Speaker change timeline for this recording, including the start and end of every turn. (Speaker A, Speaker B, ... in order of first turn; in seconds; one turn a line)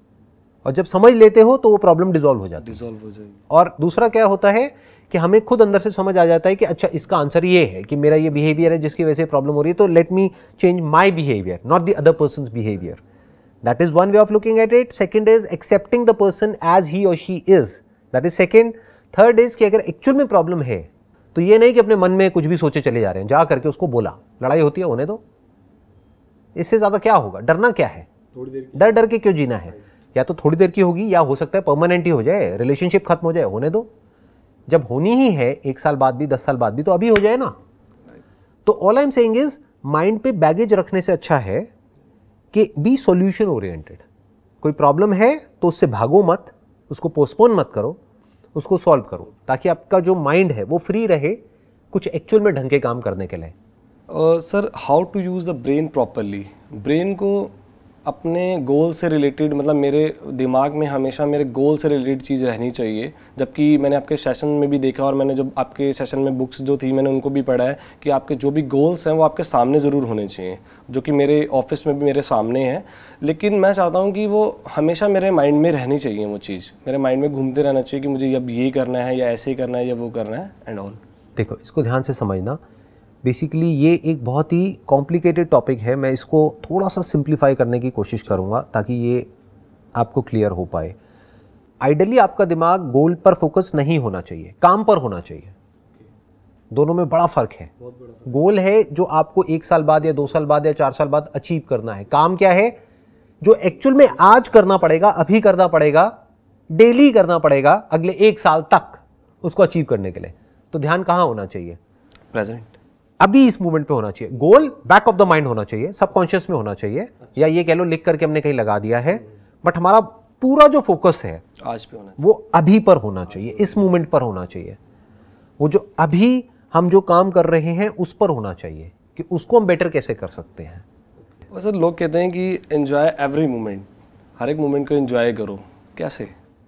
Speaker A: 0.7-2.8
Speaker B: 2.6-3.4
Speaker A: 3.5-13.0
Speaker A: 13.6-25.2
Speaker A: 26.6-28.1
Speaker B: 28.4-28.8
Speaker A: 28.7-33.9
Speaker A: 34.7-37.6
Speaker A: 38.6-41.7
Speaker A: 42.5-44.0
Speaker A: 44.6-48.0
Speaker A: 48.5-51.4
Speaker A: 51.9-53.5
Speaker B: 54.1-57.5
Speaker B: 58.1-81.0
Speaker A: 81.4-82.6
Speaker A: 83.2-89.3
Speaker A: 90.0-91.0
Speaker A: 91.8-95.5
Speaker A: 96.7-97.7
Speaker A: 98.2-102.8
Speaker A: 103.4-106.1
Speaker A: 106.7-111.8
Speaker B: 112.3-112.8
Speaker A: 113.2-121.4
Speaker B: 121.6-122.2
Speaker A: 122.2-124.8
Speaker A: 125.6-130.8
Speaker B: 131.5-133.9
Speaker B: 134.4-136.3